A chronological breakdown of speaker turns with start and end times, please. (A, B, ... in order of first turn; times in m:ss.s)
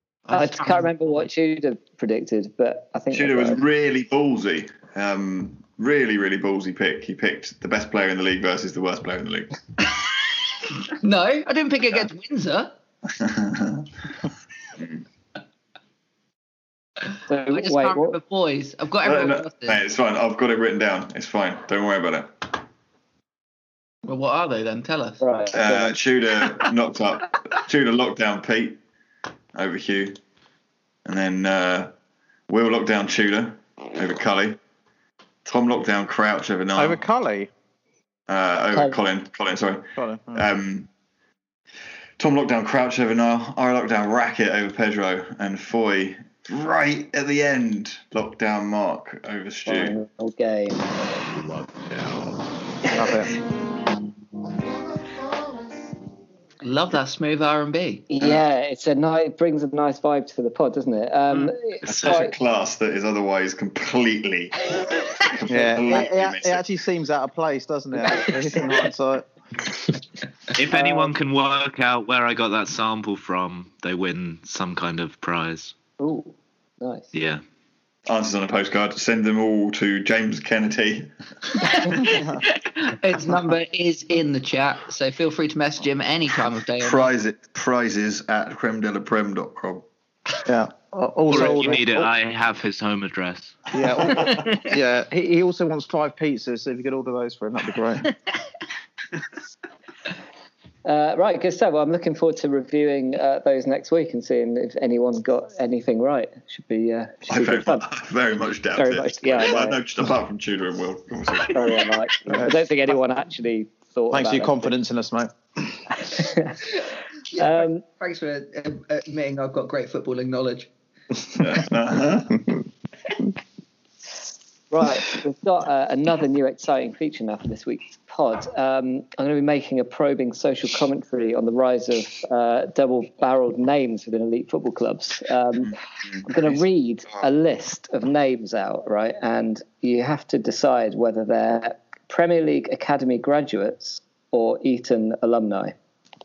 0:00.3-0:00.8 A
0:00.3-0:03.6 B
0:03.1-0:09.5 C
0:10.9-0:12.7 A
0:13.1-0:13.9 C
0:17.3-0:18.2 B
0:17.5-0:19.8 A
0:19.0-0:22.5 C
0:24.0-0:25.2 A
0:25.2-0:26.0 B
0:25.5-0:28.8 C
0:29.5-0:30.2 C
0:31.0-0:31.9 C
0:32.5-0:34.6 C
0:35.4-0:37.0 C
0:36.7-0:37.5 D
0:38.3-0:40.9 C
0:40.0-0:40.5 D
0:42.2-0:50.0 C
0:49.6-0:50.8 B
0:51.8-0:52.1 E
0:52.9-0:53.3 D
0:56.6-0:58.0 A
0:58.1-1:02.3 B
1:01.8-1:02.2 E
1:01.9-1:06.6 C
1:05.5-1:09.3 D
1:10.6-1:15.7 E
1:10.7-1:11.1 B
1:16.0-1:17.1 B
1:17.1-1:17.4 E
1:18.1-1:21.8 C
1:21.7-1:27.1 A
1:22.1-1:22.4 D
1:26.8-1:29.9 C
1:30.4-1:32.1 D
1:31.3-1:33.6 E
1:33.7-1:38.1 D
1:34.1-1:34.4 C
1:40.8-1:47.8 B
1:47.3-1:51.9 C
1:48.8-1:49.8 B
1:51.5-1:54.7 B
1:52.3-1:52.6 D
1:54.1-1:55.8 D
1:56.0-1:56.7 B
1:57.3-2:00.7 A
1:57.3-1:57.8 B
2:01.4-2:02.4 C
2:04.7-2:25.7 B
2:15.7-2:16.6 C